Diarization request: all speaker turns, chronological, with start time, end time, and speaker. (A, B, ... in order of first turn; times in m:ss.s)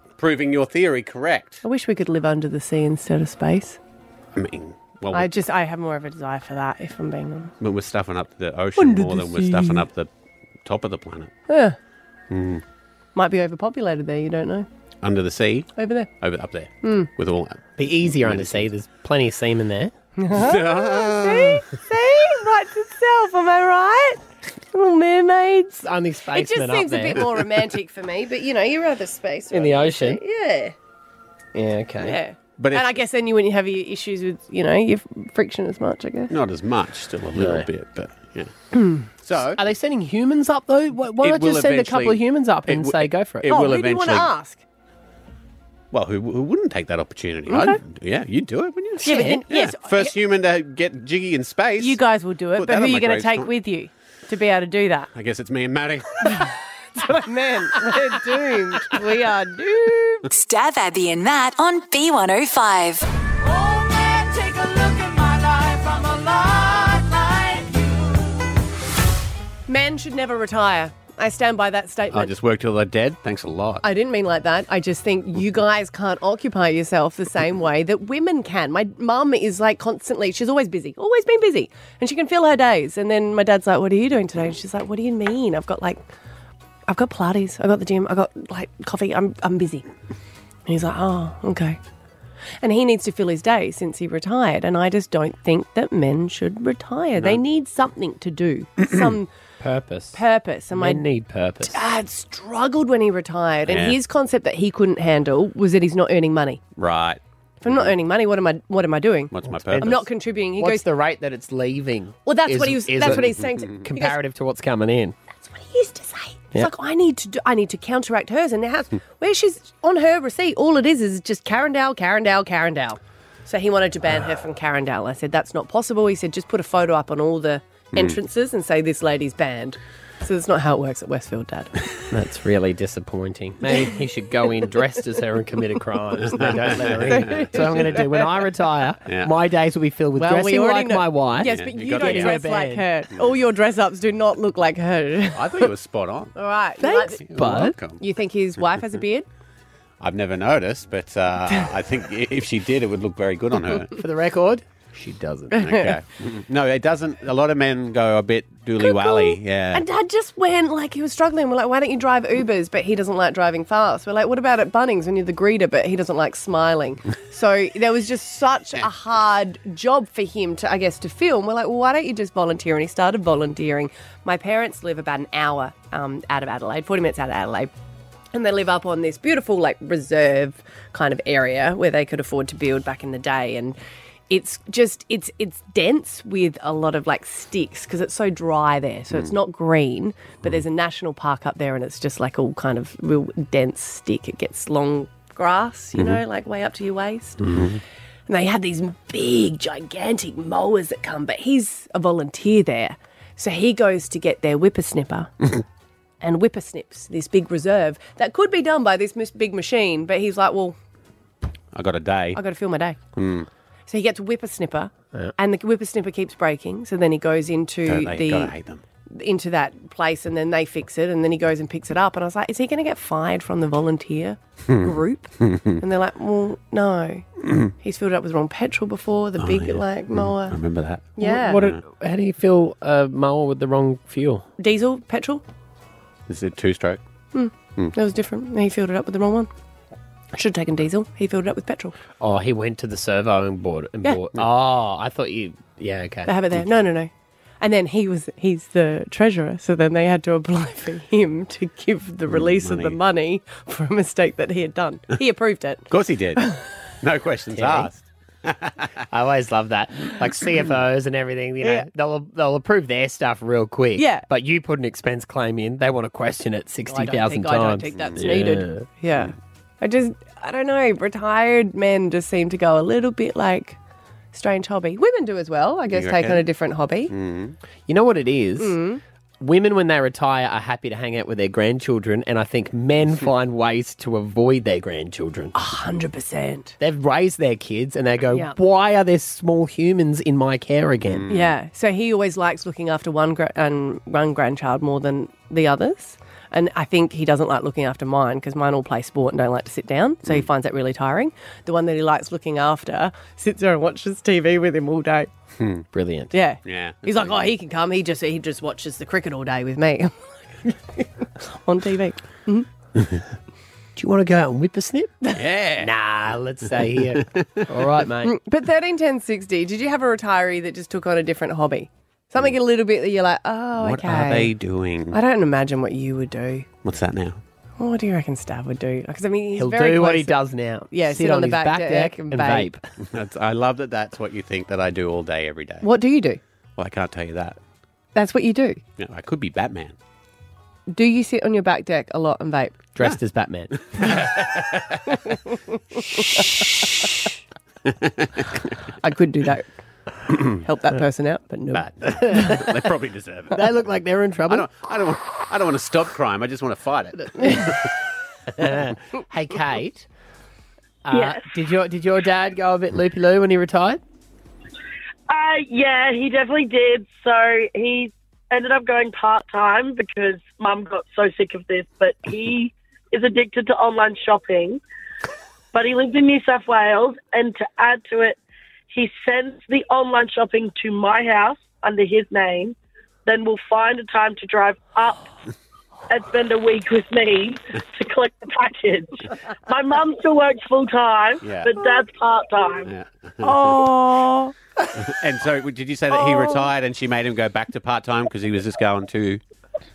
0:00.2-0:01.6 A
0:01.6-0:03.8 B
0:04.3-0:05.3 A
0:05.1-0:07.5 B
0:07.6-0:10.1 A
0:08.8-0:09.9 B
0:10.6-0:11.3 A
0:11.5-0:11.8 B
0:12.3-0:12.6 A
0:13.2-0:14.7 B
0:15.0-0:18.7 A
0:15.8-0:16.1 B
0:16.8-0:17.1 B
0:17.8-0:19.9 C
0:20.2-0:24.2 B
0:20.3-0:21.7 A
0:24.7-0:30.8 B
0:25.8-0:27.2 C
0:29.5-0:30.2 C
0:31.6-0:32.2 C
0:32.0-0:36.3 B
0:32.6-0:33.0 A
0:36.3-0:38.5 A
0:37.4-0:37.7 C
0:39.2-0:39.6 A
0:39.6-0:43.5 C
0:41.2-0:44.3 A
0:43.5-0:44.6 B
0:45.9-0:52.0 A
0:47.5-0:47.8 B
0:49.0-0:50.1 B
0:49.1-0:49.4 C
0:51.8-0:55.1 B
0:52.6-0:53.5 A
0:55.2-0:56.5 A
0:56.3-1:00.3 B
1:00.3-1:03.0 D
1:03.4-1:08.5 E
1:09.7-1:12.3 B
1:12.1-1:13.8 A
1:13.8-1:26.0 B
1:26.9-1:29.9 B
1:30.7-1:31.8 B
1:32.6-1:39.3 B
1:39.6-1:40.2 C
1:40.1-1:41.0 B
1:40.7-1:41.8 C
1:41.6-1:46.6 B
1:43.6-1:44.0 A
1:46.8-1:47.9 A
1:47.6-1:50.8 B
1:49.3-1:50.1 A
1:49.6-1:50.0 C
1:50.6-1:55.2 C
1:52.3-1:54.2 B
1:53.0-1:53.8 A
1:55.4-2:11.7 B
2:07.9-2:08.2 A
2:12.1-2:22.9 C
2:16.3-2:17.8 A
2:17.1-2:18.1 B
2:19.1-2:19.3 A
2:20.2-2:25.7 B
2:21.4-2:22.6 A
2:25.3-2:26.4 A
2:26.4-2:27.2 B
2:26.8-2:27.8 C
2:26.9-2:28.0 A
2:28.0-2:29.3 B
2:28.6-2:29.0 A
2:30.0-2:33.9 A
2:34.0-2:35.6 C
2:35.5-2:36.0 B
2:35.6-2:39.8 A
2:38.8-2:57.7 B
2:58.3-3:03.8 B
3:04.3-3:17.4 B
3:16.0-3:16.2 A
3:17.4-3:17.7 C
3:17.5-3:17.8 A
3:18.3-3:25.3 B
3:26.2-3:30.8 B
3:31.7-3:32.4 A
3:32.4-3:33.0 B
3:33.2-3:33.5 A
3:33.9-3:38.5 B
3:37.9-3:38.8 A
3:39.1-3:47.3 B
3:44.7-3:45.8 A
3:47.4-3:47.7 A
3:47.8-3:50.6 B
3:49.4-3:51.8 A
3:51.2-3:51.7 B
3:51.2-3:54.5 C
3:54.6-3:55.4 B
3:56.3-3:57.0 A
3:57.3-3:59.5 B
4:00.3-4:02.0 B
4:02.2-4:06.3 C
4:06.3-4:07.1 B
4:07.6-4:15.9 B
4:12.3-4:13.0 A
4:15.9-4:16.5 A
4:17.0-4:18.9 A
4:17.6-4:17.9 C
4:19.1-4:28.9 C
4:24.0-4:24.2 B
4:26.9-4:33.8 B
4:27.9-4:28.3 A
4:34.3-4:37.1 B
4:35.9-4:36.5 A
4:37.1-4:37.6 A
4:37.9-4:38.8 C
4:38.6-4:39.0 B
4:39.4-4:45.5 C
4:45.6-4:46.8 B
4:46.8-4:51.3 C
4:51.1-4:51.6 A
4:51.3-5:05.3 B
5:05.6-5:05.8 A
5:05.9-5:06.4 C
5:06.3-5:12.7 B
5:06.6-5:07.5 A
5:14.0-5:15.2 C
5:15.3-5:15.9 A
5:15.8-5:18.4 C
5:17.1-5:17.6 A
5:18.2-5:24.5 B
5:23.8-5:25.2 A
5:25.1-5:26.7 B
5:26.8-5:27.4 A
5:27.8-5:30.4 B
5:29.6-5:32.9 C
5:30.9-5:32.7 B
5:33.0-5:35.9 A
5:35.8-5:36.4 B
5:36.8-5:37.6 A
5:38.2-5:38.8 B
5:39.0-5:40.0 A
5:40.9-5:42.8 B
5:42.9-5:44.1 C
5:43.9-5:45.1 A
5:46.2-5:46.5 B
5:47.8-5:48.6 A
5:49.0-5:49.7 B
5:50.6-5:51.9 B
5:51.7-5:53.7 A
5:52.1-5:52.9 C
5:53.5-5:54.7 C
5:54.5-5:57.8 A
5:58.6-6:00.1 C
6:01.0-6:04.0 C
6:01.1-6:01.4 F
6:05.3-6:14.8 F
6:15.7-6:18.4 F
6:18.9-6:25.3 F
6:26.1-6:32.9 F
6:31.4-6:31.7 A
6:32.8-6:33.9 A
6:33.4-6:34.6 B
6:35.0-6:39.4 A
6:36.1-6:36.7 B